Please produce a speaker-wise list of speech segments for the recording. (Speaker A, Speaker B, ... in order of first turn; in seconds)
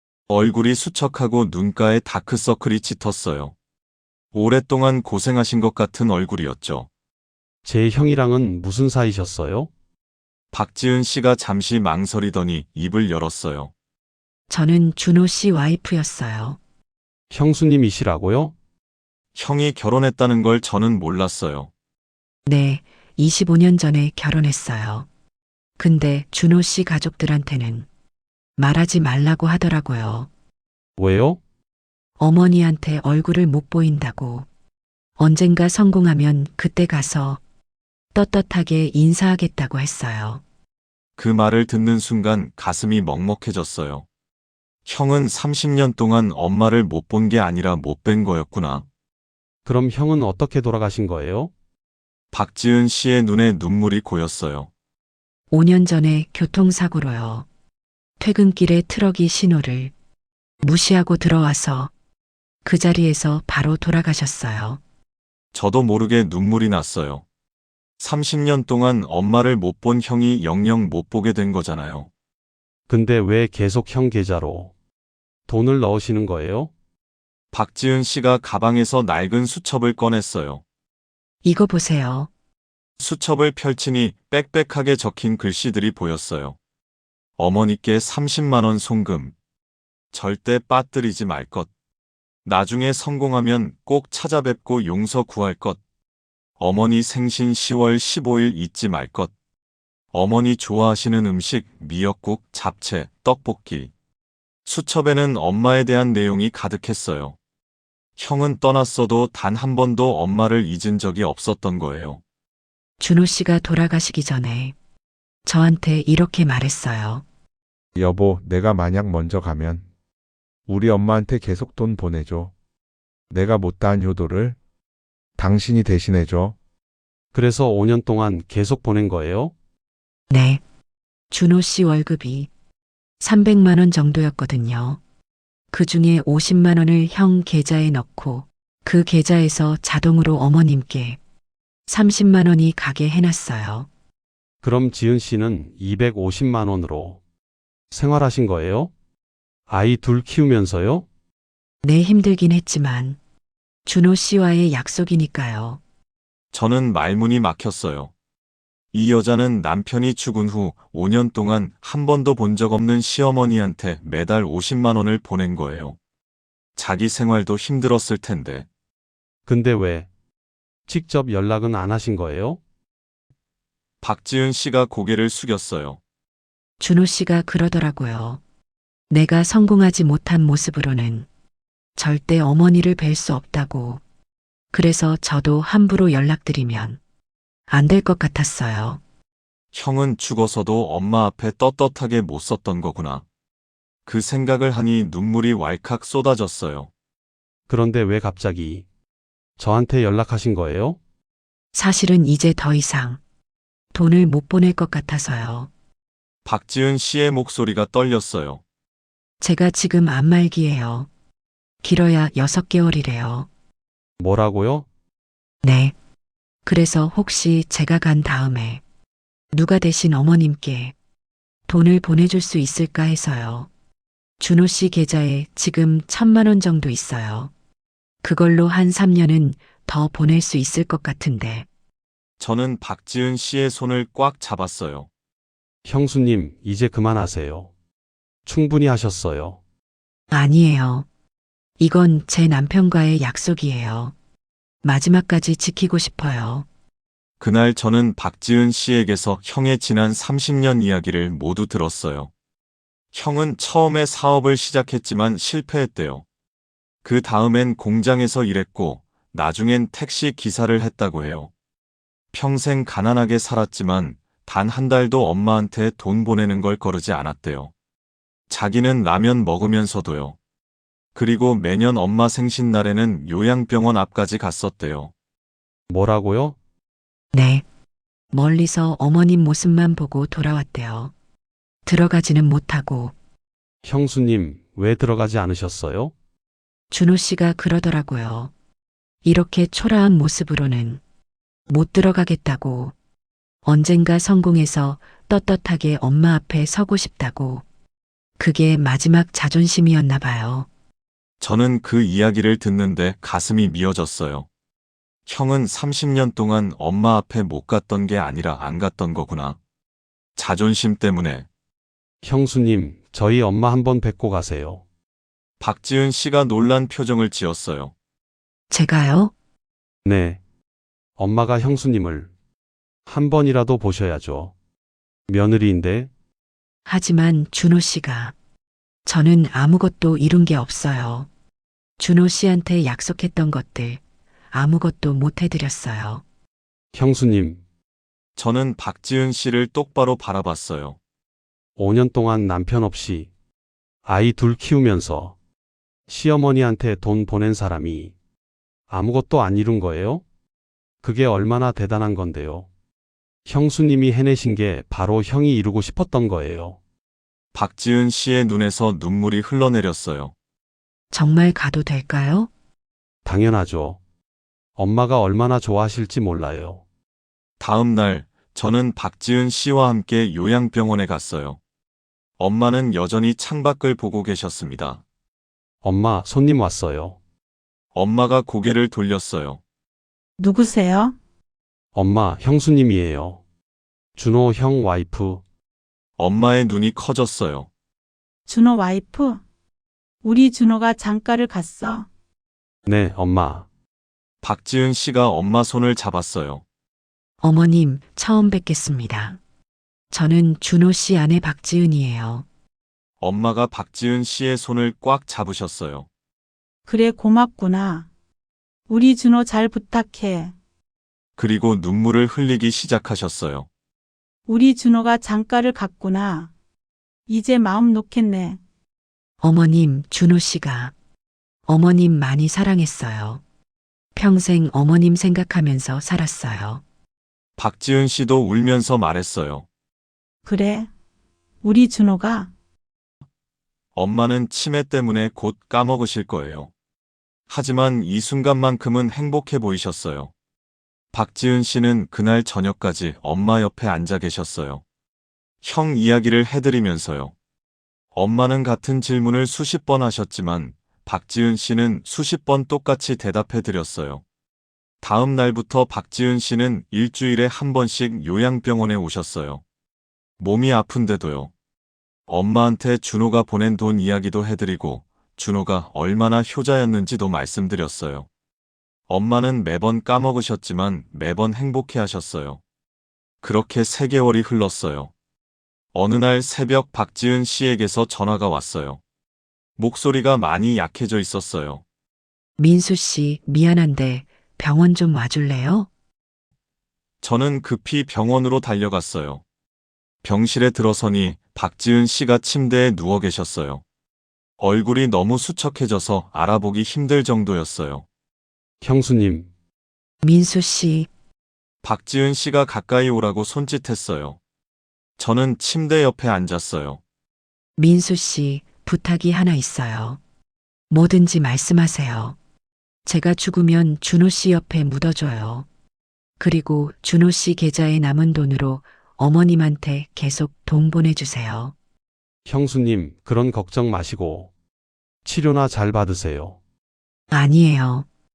Speaker A: 0.3-3.5, 4.3-6.9, 10.5-13.7, 19.3-21.7, 41.2-44.0, 44.8-48.8, 52.3-54.7, 65.5-67.2, 68.0-72.1, 77.5-80.6, 83.0-86.6, 87.4-89.3, 90.1-91.7, 92.4-95.8, 96.6-99.3, 100.1-103.9, 104.6-107.3, 108.2-112.2, 156.5-158.1, 158.9-166.0, 166.8-168.7, 174.0-176.0, 189.7-193.2, 194.1-196.9, 206.4-208.6, 232.4-235.1, 247.4-252.3, 253.1-256.2, 257.0-261.5, 262.3-267.7, 268.5-270.4, 271.1-275.1, 301.4-304.5, 305.3-309.6, 310.4-311.4, 315.6-317.9, 338.4-341.0, 357.5-360.3, 367.6-371.6, 372.4-375.0, 377.9-379.6, 386.2-387.7, 394.4-396.6, 403.2-406.1, 411.4-413.7, 427.6-429.6, 433.9-436.7, 437.5-440.3, 441.1-444.8, 445.6-447.3, 448.1-454.2, 455.0-459.6, 460.4-461.5, 462.3-468.3, 469.1-472.6, 473.4-475.1, 475.9-479.0, 479.8-481.8, 487.2-489.4, 490.2-493.8, 494.6-498.0, 501.8-504.4, 505.2-507.0
Speaker B: 7.6-9.7, 17.3-18.5, 31.0-31.4, 49.6-51.5, 72.9-74.7, 75.5-76.7, 127.3-129.5, 144.6-147.2, 147.9-148.9, 149.7-151.1, 169.4-170.1, 170.9-172.6, 197.7-198.8, 199.6-201.0, 214.2-214.9, 235.8-237.7, 238.4-239.6, 275.9-276.6, 283.8-286.1, 312.2-314.8, 320.0-320.4, 321.2-322.3, 323.1-324.5, 325.3-326.1, 336.9-337.6, 341.8-343.3, 344.1-345.4, 346.1-348.1, 348.9-350.2, 351.0-352.7, 353.4-356.8, 363.2-364.0, 364.8-366.8, 375.8-377.2, 381.9-383.4, 384.1-385.4, 392.9-393.7, 498.8-499.5, 522.5-524.5, 525.2-526.6
Speaker C: 14.5-16.6, 22.4-25.1, 25.8-27.9, 28.6-30.3, 32.2-34.5, 35.2-37.4, 38.1-40.4, 55.5-57.5, 58.2-59.9, 60.6-61.9, 62.6-64.8, 81.4-82.3, 113.0-114.7, 115.5-117.2, 130.3-130.6, 131.3-132.5, 133.2-135.0, 135.7-141.2, 141.9-143.9, 151.8-153.2, 153.8-155.8, 176.8-178.4, 179.1-181.3, 181.9-184.0, 184.7-187.0, 187.7-189.0, 201.7-203.2, 203.9-205.7, 209.4-211.1, 211.8-213.5, 215.6-215.9, 216.7-218.8, 219.5-220.9, 221.7-223.7, 224.4-227.5, 228.2-231.7, 240.3-241.1, 241.8-244.1, 244.8-246.7, 277.3-277.6, 278.3-281.1, 281.9-283.1, 286.9-288.5, 289.2-291.0, 291.7-292.9, 293.6-297.6, 298.4-300.7, 318.7-319.3, 326.9-328.3, 329.1-331.3, 332.0-334.0, 334.5-336.2, 361.1-362.5, 397.4-399.4, 400.1-402.4, 419.4-420.9, 421.7-423.4, 424.1-426.8, 482.6-485.9, 500.2-501.1, 507.8-510.2, 510.9-512.4, 513.0-515.7, 516.4-521.7, 527.3-528.1
Speaker D: 117.9-119.8, 120.7-122.5, 123.3-124.6, 125.4-126.6
Speaker E: 380.4-381.1, 388.5-389.4, 390.2-392.1, 406.9-408.1, 408.9-410.5, 414.5-416.5, 417.3-418.6, 430.4-430.9, 431.6-432.5